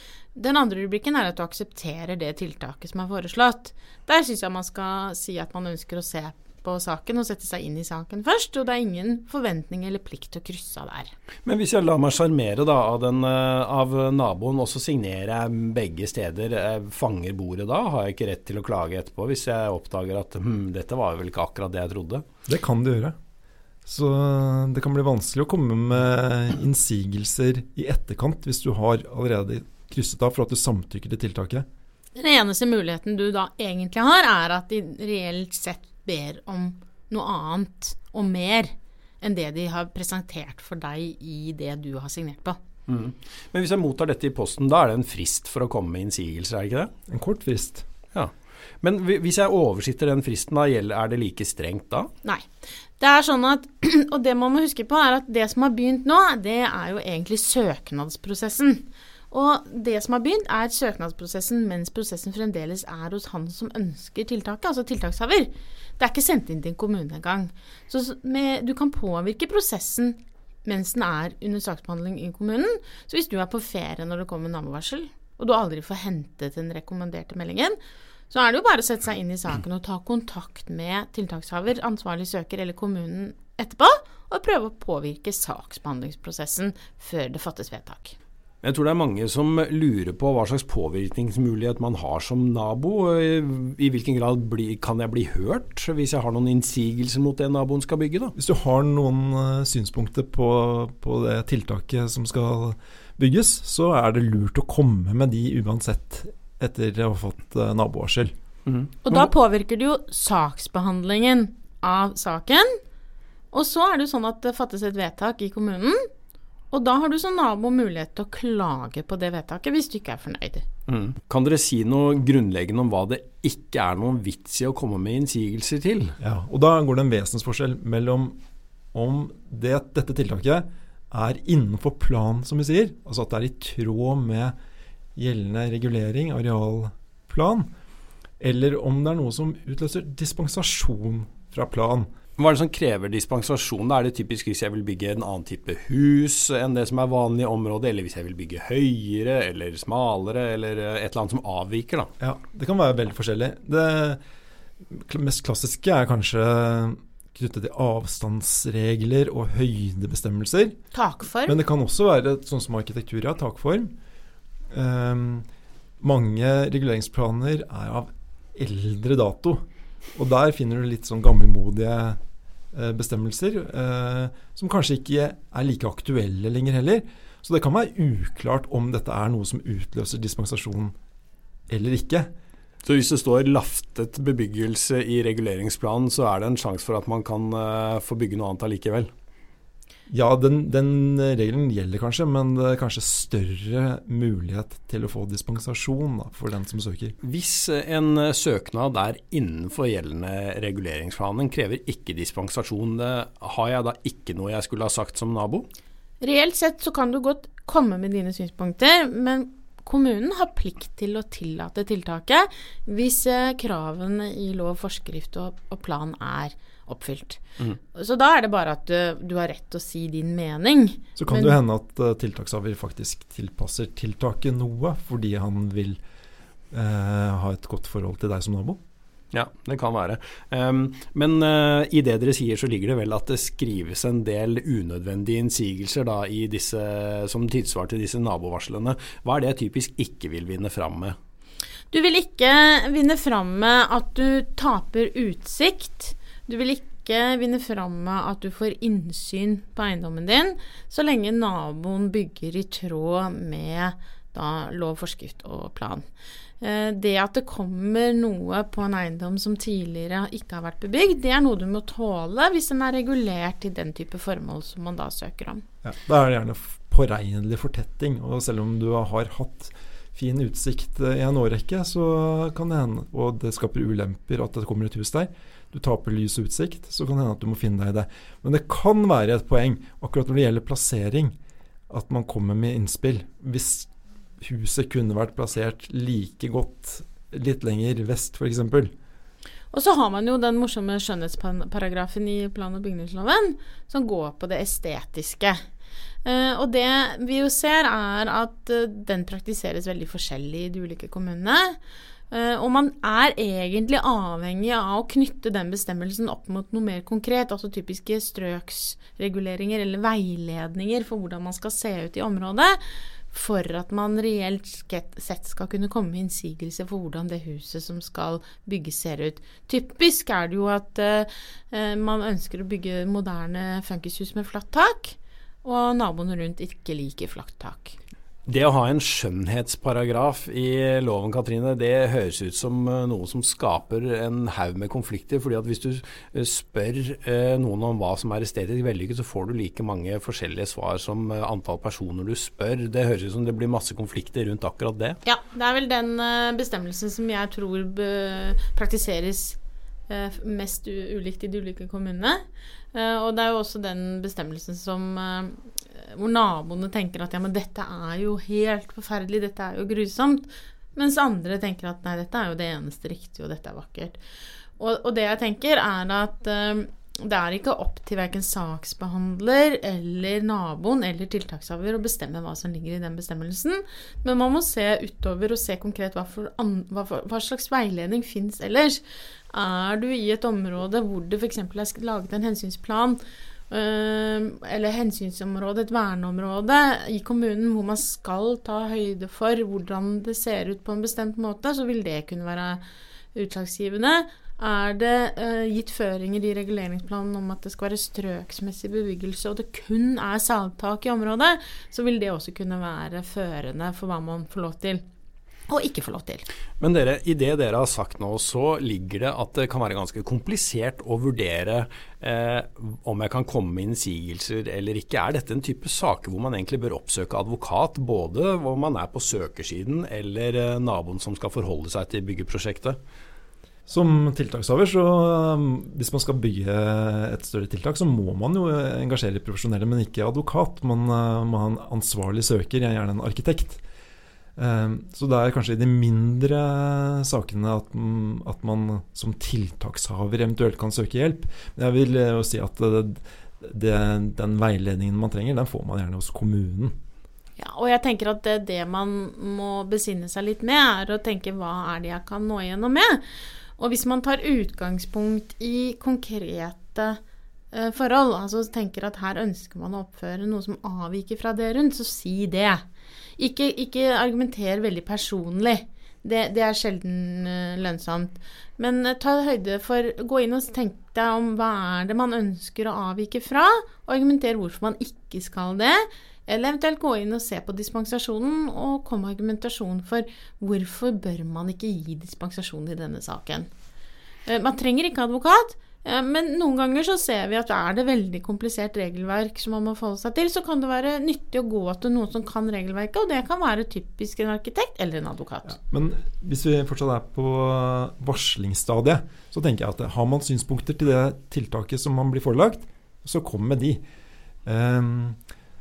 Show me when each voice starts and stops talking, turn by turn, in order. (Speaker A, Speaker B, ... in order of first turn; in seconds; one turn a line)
Speaker A: 0.3-11.1
Speaker B: 11.4-22.2
Speaker C: 22.5-23.1
Speaker C: 23.9-31.6
Speaker A: 32.1-42.6
Speaker B: 42.9-46.9
Speaker C: 47.1-47.8
Speaker B: 48.1-52.1
Speaker A: 53.0-77.8
Speaker A: 78.3-88.2
Speaker B: 88.6-98.3
Speaker C: 98.3-108.3
Speaker A: 109.0-112.8
Speaker A: 113.5-116.1
Speaker A: 116.7-120.6
Speaker B: 120.9-126.2
Speaker C: 126.2-128.4
Speaker C: 128.9-134.5
Speaker C: 135.2-137.7
Speaker C: 138.4-142.1
Speaker B: 142.4-152.1
Speaker C: 152.2-154.2
Speaker C: 154.9-160.8
Speaker A: 160.9-161.6
Speaker C: 161.4-163.9
Speaker C: 164.7-165.5
Speaker C: 166.0-172.2
Speaker C: 172.7-180.9
Speaker C: 181.7-182.3
Speaker B: 182.8-189.1
Speaker C: 190.1-197.2
Speaker B: 197.2-205.7
Speaker A: 206.2-221.6
Speaker C: 221.2-226.0
Speaker C: 226.7-228.8
Speaker B: 229.3-241.2
Speaker A: 241.9-256.1
Speaker A: 256.6-265.6
Speaker C: 265.8-281.3
Speaker C: 281.9-288.9
Speaker A: 289.7-295.6
Speaker A: 296.2-301.8
Speaker A: 302.3-328.0
Speaker B: 328.5-345.2
Speaker A: 345.2-364.2
Speaker A: 364.8-383.2
Speaker A: 383.7-392.8
Speaker A: 393.3-405.0
Speaker A: 405.7-406.4
Speaker B: 406.8-423.0
Speaker C: 423.9-433.8
Speaker C: 434.6-446.9
Speaker A: 447.6-453.2
Speaker A: 453.8-457.2
Speaker A: 457.7-462.8
Speaker A: 463.4-483.7
Speaker A: 484.4-495.8
Speaker C: 495.8-504.0
Speaker C: 504.6-505.4